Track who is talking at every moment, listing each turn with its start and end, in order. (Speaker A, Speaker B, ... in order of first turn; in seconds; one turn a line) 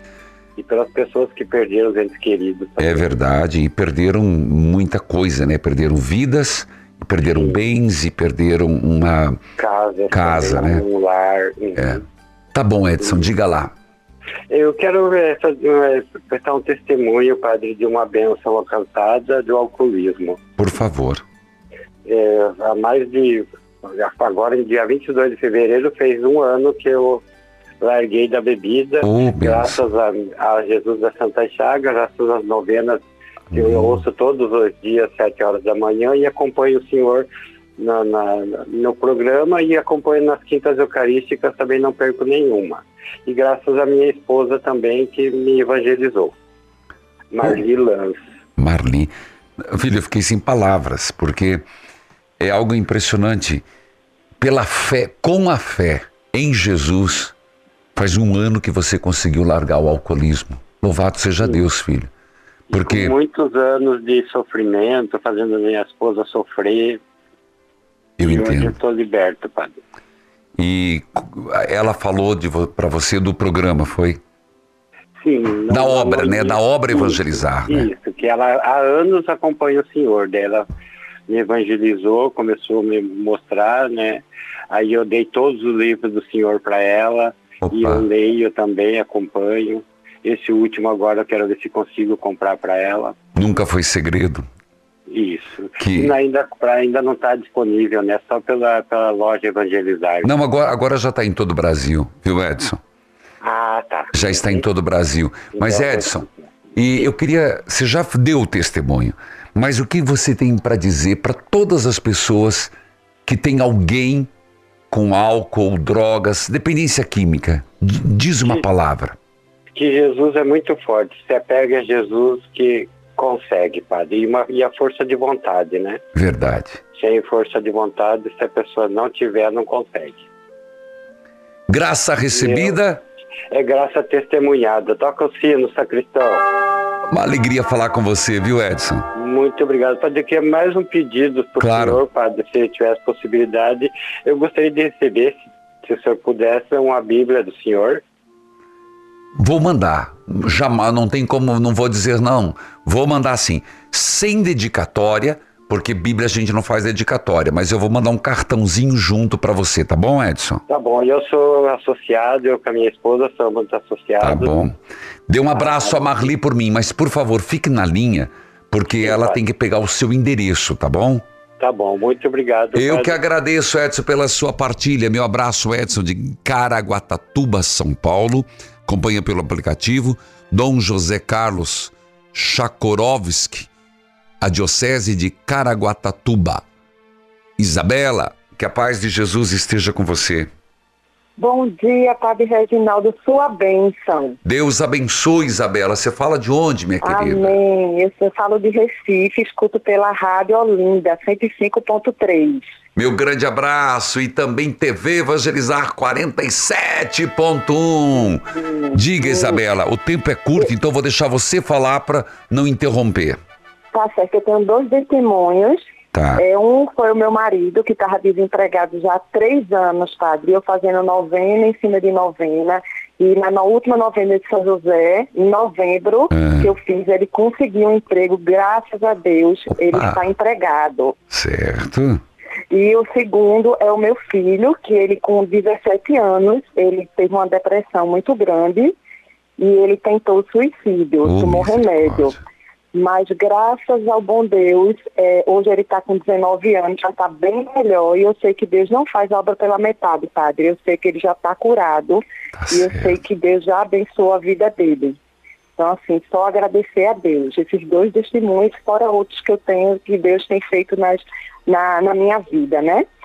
Speaker A: 0.6-3.0
Speaker B: 2.8-9.4
Speaker A: 7.3-7.6
Speaker A: 9.6-12.0
Speaker B: 10.1-10.8
Speaker B: 11.8-12.0
Speaker B: 12.5-13.7
Speaker A: 13.0-13.3
Speaker A: 14.5-20.4
Speaker B: 20.6-21.2
Speaker A: 22.1-27.2
Speaker A: 27.8-33.0
Speaker B: 29.0-29.8
Speaker B: 33.5-34.0
Speaker A: 33.5-37.3
Speaker A: 37.8-46.3
Speaker A: 47.3-48.2
Speaker B: 48.6-51.6
Speaker B: 52.4-53.6
Speaker B: 54.4-57.3
Speaker B: 57.9-62.1
Speaker B: 62.7-63.1
Speaker A: 62.7-67.0
Speaker B: 68.2-68.8
Speaker A: 68.2-69.8
Speaker B: 70.6-74.2
Speaker A: 75.2-80.7
Speaker B: 75.7-77.9
Speaker A: 81.3-93.1
Speaker B: 87.6-88.0
Speaker B: 93.3-94.5
Speaker A: 95.1-100.3
Speaker B: 95.8-96.2
Speaker B: 100.2-102.8
Speaker A: 103.4-104.6
Speaker B: 104.1-112.7
Speaker A: 105.5-106.5
Speaker B: 113.2-114.3
Speaker B: 114.9-119.2
Speaker A: 119.7-126.0
Speaker B: 126.1-126.8
Speaker A: 126.9-130.3
Speaker B: 131.7-133.0
Speaker A: 132.3-132.8
Speaker A: 133.5-136.4
Speaker B: 137.1-139.1
Speaker A: 139.1-148.0
Speaker B: 141.6-142.0
Speaker B: 149.3-160.6
Speaker A: 160.7-164.5
Speaker B: 164.2-171.2
Speaker A: 165.5-166.3
Speaker A: 169.0-169.4
Speaker A: 171.6-173.2
Speaker B: 172.7-183.7
Speaker B: 184.4-186.6
Speaker B: 187.6-190.5
Speaker C: 191.4-194.4
Speaker B: 194.4-197.5
Speaker C: 197.0-202.6
Speaker B: 202.9-213.4
Speaker C: 208.5-209.6
Speaker C: 213.9-231.1
Speaker B: 216.1-216.4
Speaker B: 226.3-226.7
Speaker B: 229.8-230.2
Speaker B: 231.3-232.2
Speaker C: 232.7-238.9
Speaker C: 239.6-242.4
Speaker B: 241.2-242.4
Speaker C: 242.9-255.2
Speaker B: 252.6-253.1
Speaker C: 255.8-263.1